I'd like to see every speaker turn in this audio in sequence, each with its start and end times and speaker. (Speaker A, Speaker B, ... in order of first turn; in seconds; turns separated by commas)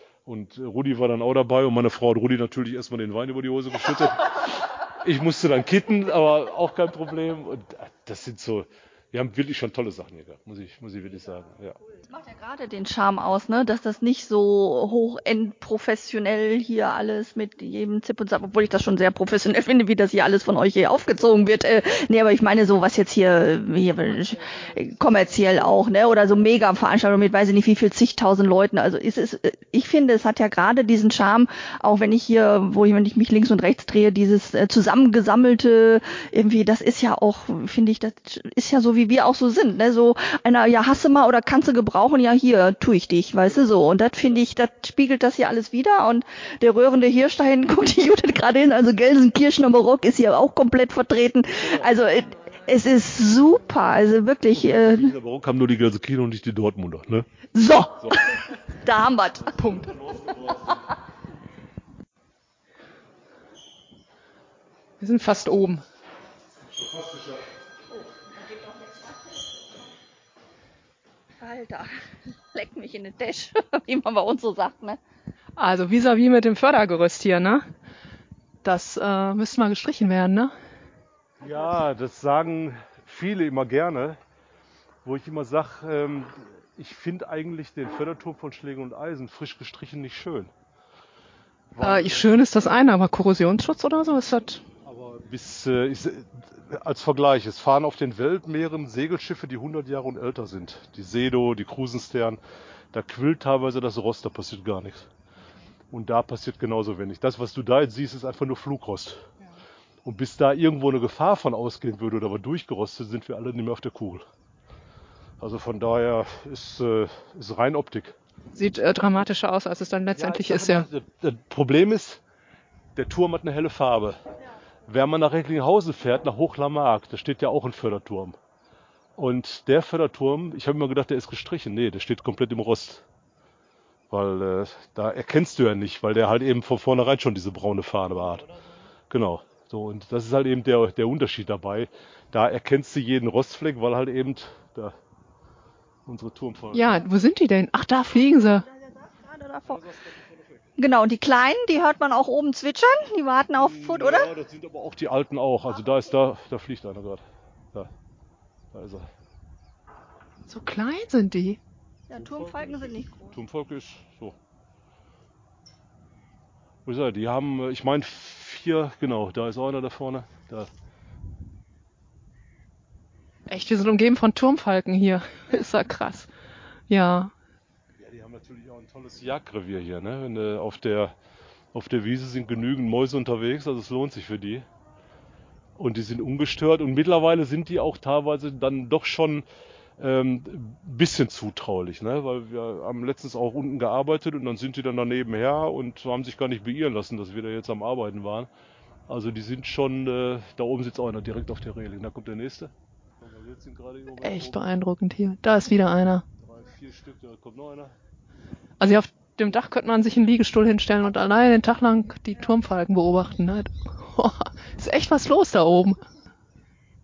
Speaker A: 0.2-11.8, Speaker B: 12.1-55.1, Speaker A: 54.5-57.3, Speaker B: 57.5-59.5, Speaker A: 58.0-58.3, Speaker A: 59.4-60.9, Speaker C: 59.5-59.9, Speaker C: 65.0-65.8, Speaker A: 66.7-67.4, Speaker B: 67.9-69.0, Speaker B: 71.4-71.9, Speaker B: 72.5-75.0, Speaker C: 75.6-77.6, Speaker C: 78.6-80.5, Speaker A: 81.4-84.2, Speaker A: 85.0-90.5, Speaker A: 91.7-92.3, Speaker C: 91.8-94.6, Speaker A: 94.8-102.4, Speaker A: 102.9-105.1, Speaker A: 105.9-109.2, Speaker A: 110.0-114.3, Speaker A: 115.4-118.2, Speaker C: 118.5-120.9, Speaker A: 120.1-122.2, Speaker A: 122.9-124.2, Speaker A: 124.8-128.3, Speaker A: 129.2-133.0, Speaker A: 134.1-138.5, Speaker A: 139.1-145.0, Speaker A: 146.1-146.9, Speaker C: 146.7-148.7, Speaker B: 148.7-149.8, Speaker A: 149.7-150.7, Speaker B: 150.8-154.3, Speaker A: 153.6-157.9, Speaker A: 158.7-159.1, Speaker C: 160.5-161.6, Speaker B: 162.1-163.3, Speaker A: 162.1-164.4, Speaker A: 166.8-170.7, Speaker C: 173.5-176.3, Speaker C: 176.9-177.3, Speaker A: 178.0-181.1, Speaker A: 181.7-184.7, Speaker A: 185.8-189.4, Speaker A: 190.0-198.5, Speaker A: 199.1-204.7, Speaker C: 204.2-206.2, Speaker A: 206.4-207.9, Speaker C: 208.8-216.0